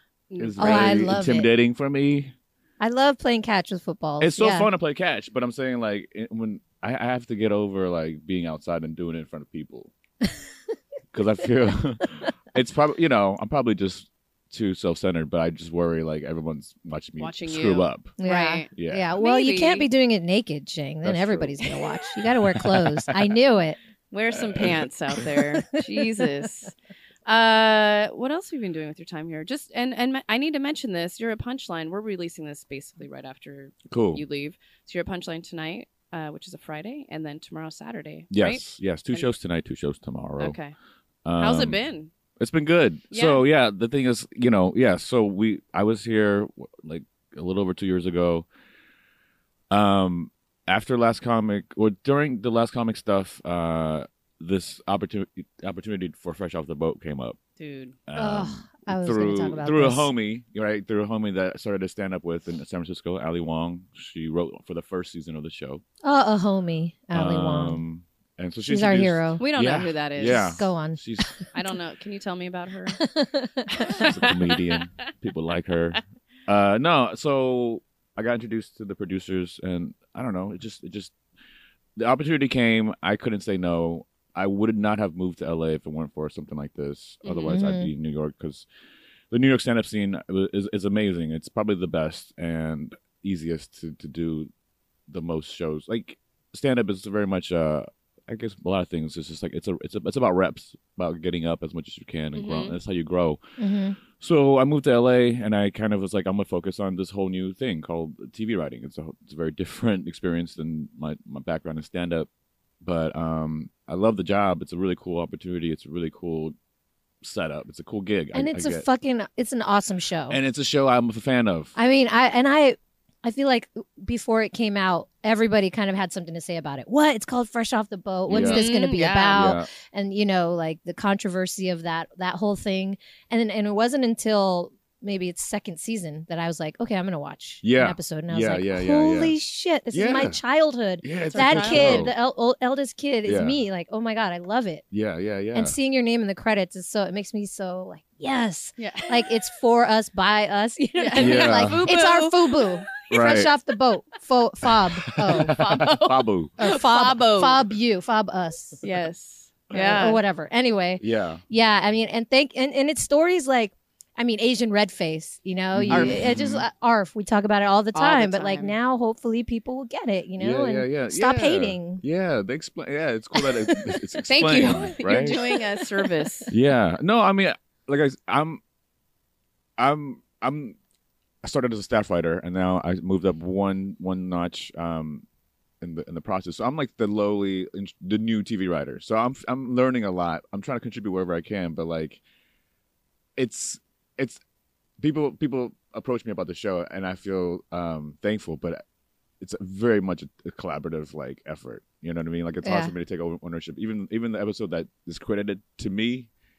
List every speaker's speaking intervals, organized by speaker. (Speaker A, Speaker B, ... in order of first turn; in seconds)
Speaker A: 0.3-1.1, 17.2-19.9, 24.1-26.7, 27.2-39.3, 40.4-40.7, 41.4-42.1, 43.1-43.4, 57.6-58.0, 69.4-70.6, 71.5-73.0, 73.7-74.3, 87.2-87.6, 102.3-102.8, 128.3-129.5, 141.3-142.1, 148.8-149.3, 151.0-152.9, 155.3-157.7, 158.8-160.2, 165.9-166.3, 167.9-168.7, 174.3-176.5
Speaker B: 0.4-2.3, 4.2-9.9, 11.1-18.1, 18.7-19.1, 21.0-23.3, 24.3-24.8, 33.9-34.2, 38.3-40.6, 41.2-41.8, 42.4-48.5, 49.7-57.4, 58.1-65.8, 67.1-71.4, 74.0-81.1, 82.0-88.7, 89.3-94.5, 95.1-103.4, 104.1-112.3, 112.8-116.5, 117.2-118.9, 120.3-121.8, 128.3-128.6, 129.3-129.7, 137.6-139.3, 139.9-140.4, 141.0-142.1, 143.2-143.6, 144.9-145.8, 151.2-151.8, 153.1-153.5, 155.1-156.5, 159.7-160.0, 161.0-161.4, 165.7-166.7, 170.4-175.5, 176.5-178.6, 179.8-180.8, 181.4-185.2, 185.8-192.2, 193.4-194.4, 195.0-198.8, 199.4-206.3
Speaker C: 0.6-1.5, 2.8-4.7, 18.2-23.8, 58.1-60.1, 66.0-67.8, 68.7-69.4, 70.2-71.3, 72.9-74.4, 87.5-87.9, 103.6-104.0, 118.3-120.4, 121.8-144.8, 145.5-155.5, 156.6-158.8, 159.7-172.0, 173.6-174.0, 202.6-202.9